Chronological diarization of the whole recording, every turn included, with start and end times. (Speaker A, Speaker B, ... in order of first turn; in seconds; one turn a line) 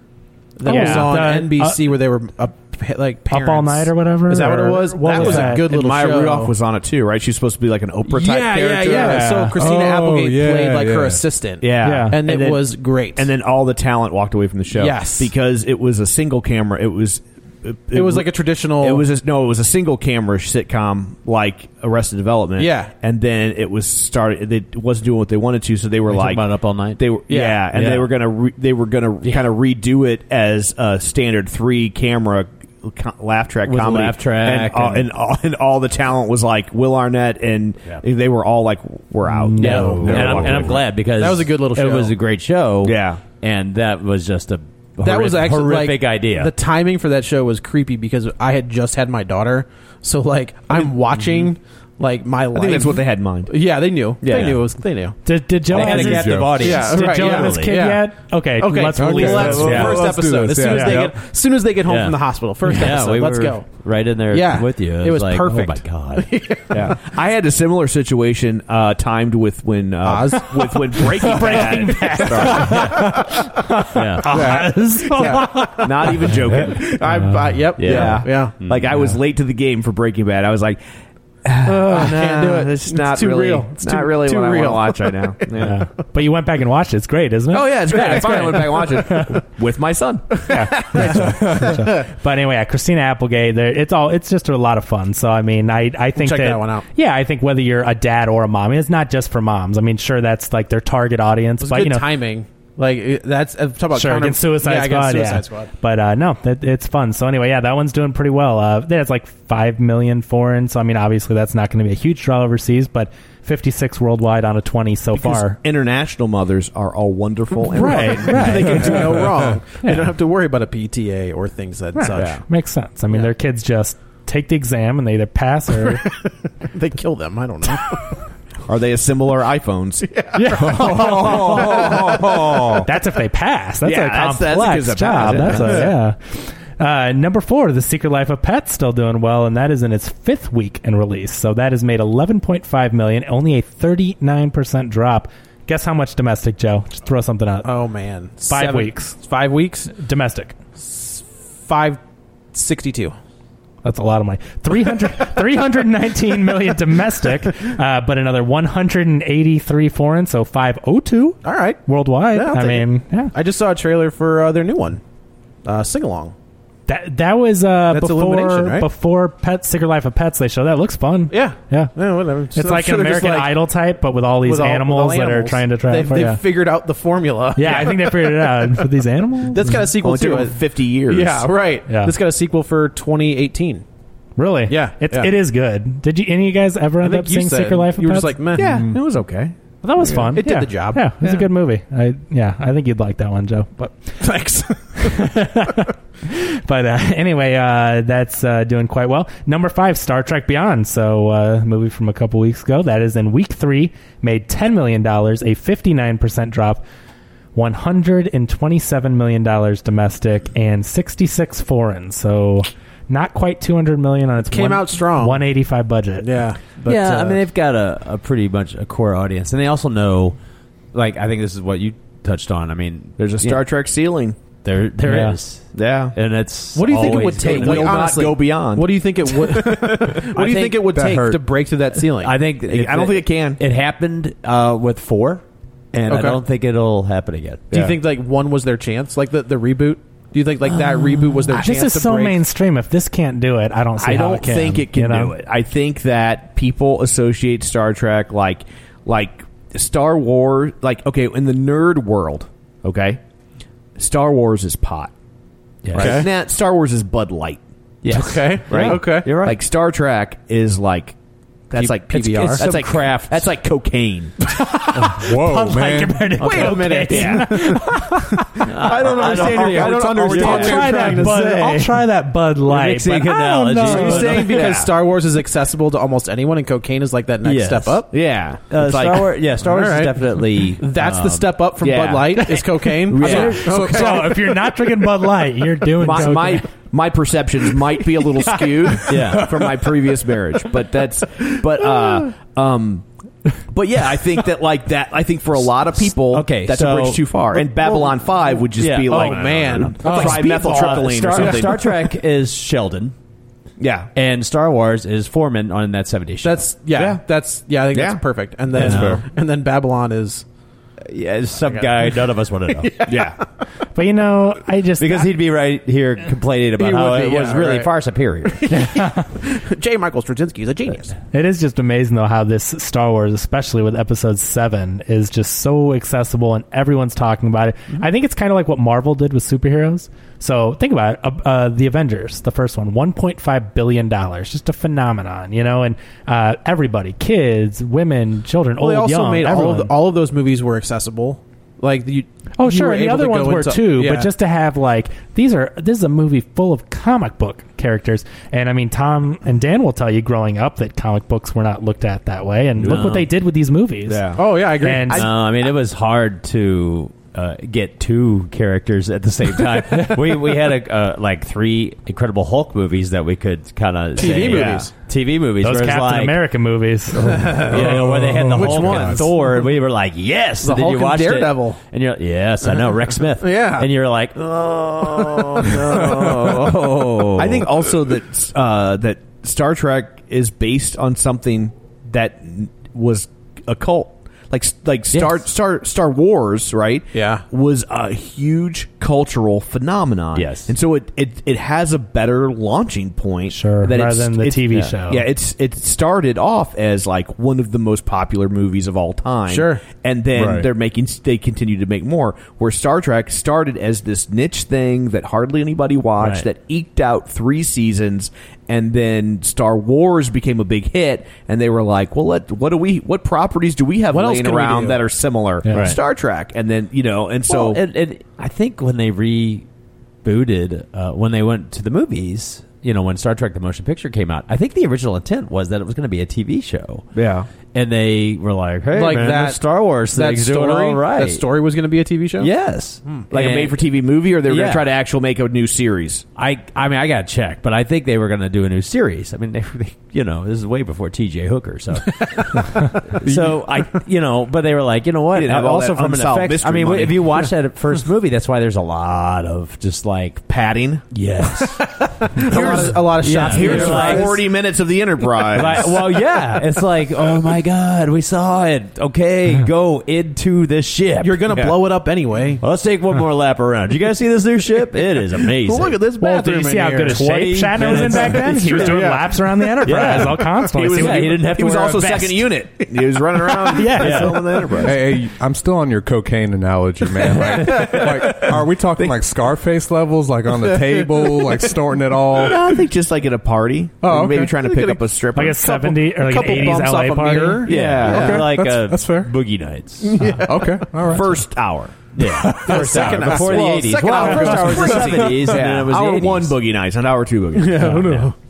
Speaker A: 0.6-6.5
Speaker B: 0.6-1.9
Speaker C: 0.7-1.1
Speaker B: 3.3-5.6
Speaker C: 5.0-9.4
Speaker A: 8.1-13.3
Speaker B: 8.9-9.6
Speaker D: 9.5-11.2
Speaker C: 11.6-40.9
Speaker B: 11.8-12.2
Speaker A: 14.7-15.3
Speaker A: 17.9-19.0
Speaker A: 22.6-22.9
Speaker E: 26.1-27.0
Speaker A: 27.3-27.7
Speaker E: 27.7-28.1
Speaker E: 33.6-35.1
Speaker B: 39.2-40.4
Speaker E: 39.6-46.5
Speaker A: 39.6-42.1
Speaker C: 42.8-43.2
Speaker A: 45.0-55.2
Speaker E: 51.2-51.5
Speaker C: 52.5-53.6
Speaker C: 54.2-54.6
Speaker B: 55.2-60.0
Speaker D: 55.7-56.7
Speaker E: 55.7-57.7
Speaker A: 55.8-63.7
Speaker D: 58.9-61.2
Speaker E: 59.5-60.0
Speaker B: 60.7-61.0
Speaker E: 61.9-66.3
Speaker A: 64.3-66.8
Speaker C: 66.7-73.0
Speaker A: 70.0-70.6
Speaker B: 71.0-76.4
Speaker A: 71.4-71.7
Speaker A: 72.5-72.8
Speaker E: 73.9-74.3
Speaker D: 74.3-74.8
Speaker A: 75.1-75.7
Speaker C: 75.8-77.0
Speaker A: 76.7-78.5
Speaker B: 77.1-77.5
Speaker E: 77.8-78.8
Speaker C: 77.8-80.8
Speaker C: 81.4-85.8
Speaker A: 81.6-85.6
Speaker B: 85.6-89.4
Speaker C: 87.5-91.2
Speaker A: 87.9-88.8
Speaker A: 90.4-92.1
Speaker B: 90.5-102.0
Speaker A: 96.2-96.8
Speaker A: 101.6-105.7
Speaker B: 103.9-115.6
Speaker C: 115.1-119.3
Speaker B: 117.7-119.2
Speaker A: 117.7-122.4
Speaker B: 121.9-126.0
Speaker C: 122.1-122.4
Speaker A: 125.8-128.2
Speaker C: 128.7-130.1
Speaker A: 130.1-132.5
Speaker B: 130.4-132.0
Speaker D: 130.4-132.8
Speaker C: 130.9-132.8
Speaker B: 132.8-147.7
Speaker C: 133.8-135.9
Speaker A: 147.6-149.9
Speaker B: 148.5-149.2
Speaker B: 149.9-150.5
Speaker A: 150.8-152.0
Speaker A: 152.5-153.2
Speaker B: 153.8-163.3
Speaker A: 161.4-165.0
Speaker A: 165.6-166.3
Speaker B: 166.9-171.9
Speaker A: 167.9-168.9
Speaker A: 171.3-173.6
Speaker B: 172.5-176.4
Speaker A: 174.4-178.8
Speaker B: 177.6-179.8
Speaker A: 179.5-180.6
Speaker C: 179.8-181.5
Speaker A: 181.1-183.8
Speaker B: 181.9-182.1
Speaker B: 184.4-188.4
Speaker A: 184.7-185.3
Speaker A: 187.0-188.9
Speaker C: 188.6-189.5
Speaker D: 188.6-189.0
Speaker E: 188.9-189.3
Speaker B: 189.8-194.0
Speaker A: 190.0-191.4
Speaker A: 194.2-195.3
Speaker B: 195.0-206.8
Speaker B: 207.6-217.3
Speaker A: 214.4-215.4
Speaker A: 216.2-217.3
Speaker E: 216.8-220.3
Speaker E: 220.9-223.6
Speaker C: 223.2-224.4
Speaker E: 224.6-228.1
Speaker B: 225.0-225.4
Speaker C: 225.7-226.2
Speaker A: 226.7-232.3
Speaker C: 226.9-230.4
Speaker E: 230.3-230.8
Speaker D: 230.8-231.4
Speaker E: 232.2-235.4
Speaker C: 232.7-233.6
Speaker E: 236.0-238.0
Speaker A: 236.1-236.4
Speaker A: 237.7-242.4
Speaker B: 241.5-245.3
Speaker C: 244.0-253.2
Speaker C: 254.0-255.1
Speaker E: 255.8-256.2
Speaker A: 255.9-256.3
Speaker C: 255.9-257.6
Speaker E: 258.0-259.6
Speaker A: 258.1-259.3
Speaker C: 258.7-261.1
Speaker C: 261.7-264.3
Speaker A: 261.7-262.6
Speaker E: 261.8-263.5
Speaker B: 264.8-268.4
Speaker D: 265.0-266.3
Speaker A: 266.4-272.0
Speaker C: 267.1-267.5
Speaker E: 268.6-271.6
Speaker C: 268.8-271.4
Speaker B: 270.4-274.4
Speaker E: 272.6-274.8
Speaker A: 273.8-278.1
Speaker C: 273.9-274.9
Speaker E: 277.4-278.0
Speaker C: 278.1-279.4
Speaker E: 278.7-281.5
Speaker A: 279.6-284.3
Speaker C: 281.8-282.5
Speaker B: 282.4-286.7
Speaker C: 283.1-283.8
Speaker E: 283.1-283.9
Speaker D: 283.7-284.1
Speaker C: 286.0-293.0
Speaker A: 288.4-289.0
Speaker E: 289.1-289.6
Speaker C: 293.7-301.9
Speaker E: 296.3-297.6
Speaker E: 298.8-303.1
Speaker A: 299.0-301.9
Speaker C: 303.8-304.1
Speaker E: 304.1-306.7
Speaker A: 306.4-310.4
Speaker C: 306.9-307.2
Speaker C: 307.9-308.2
Speaker E: 308.8-309.2
Speaker D: 308.8-309.2
Speaker E: 311.1-313.1
Speaker A: 311.6-313.4
Speaker C: 313.1-313.4
Speaker B: 313.9-315.3
Speaker E: 315.0-318.7
Speaker A: 316.8-317.9
Speaker A: 318.4-321.1
Speaker B: 318.7-319.3
Speaker B: 321.3-339.9
Speaker A: 338.8-344.3
Speaker B: 342.6-355.3
Speaker E: 352.8-353.3
Speaker C: 354.1-354.4
Speaker A: 354.4-355.3
Speaker E: 355.1-366.4
Speaker A: 364.1-364.9
Speaker C: 364.3-364.9
Speaker B: 365.6-367.7
Speaker E: 367.2-377.7
Speaker A: 367.3-369.6
Speaker D: 367.6-369.3
Speaker A: 370.6-371.8
Speaker A: 373.4-373.9
Speaker A: 375.0-376.1
Speaker C: 375.4-417.8
Speaker A: 387.1-387.4
Speaker E: 390.3-390.7
Speaker B: 393.5-395.2
Speaker A: 399.5-399.8
Speaker D: 400.3-400.6
Speaker E: 406.2-406.4
Speaker A: 414.1-415.0
Speaker B: 415.6-415.9
Speaker E: 415.7-416.0
Speaker E: 417.5-419.6
Speaker E: 420.2-427.1
Speaker C: 427.1-427.5
Speaker E: 427.7-431.4
Speaker A: 428.9-432.5
Speaker E: 432.4-433.8
Speaker C: 433.3-436.2
Speaker E: 434.4-434.9
Speaker E: 436.4-450.4
Speaker C: 445.3-447.3
Speaker C: 450.5-451.1
Speaker E: 451.1-454.4
Speaker A: 451.8-454.4
Speaker C: 452.4-456.1
Speaker E: 455.4-461.8
Speaker A: 461.2-462.6
Speaker E: 462.6-466.0
Speaker A: 465.6-469.8
Speaker B: 466.2-471.4
Speaker E: 467.0-469.2
Speaker E: 469.8-472.4
Speaker C: 470.6-475.1
Speaker A: 473.0-473.9
Speaker B: 473.7-474.4
Speaker E: 474.0-474.5
Speaker D: 474.8-482.8
Speaker E: 477.4-478.4
Speaker A: 480.5-481.7
Speaker C: 482.3-485.7
Speaker D: 484.0-484.5
Speaker A: 484.2-488.5
Speaker B: 485.3-487.7
Speaker C: 487.7-488.5
Speaker E: 487.7-490.4
Speaker D: 488.1-489.3
Speaker A: 490.0-490.8
Speaker D: 490.2-491.5
Speaker C: 491.1-492.0
Speaker E: 492.1-496.5
Speaker D: 492.2-492.9
Speaker A: 492.6-495.7
Speaker C: 493.9-498.0
Speaker A: 497.5-498.3
Speaker E: 497.8-498.3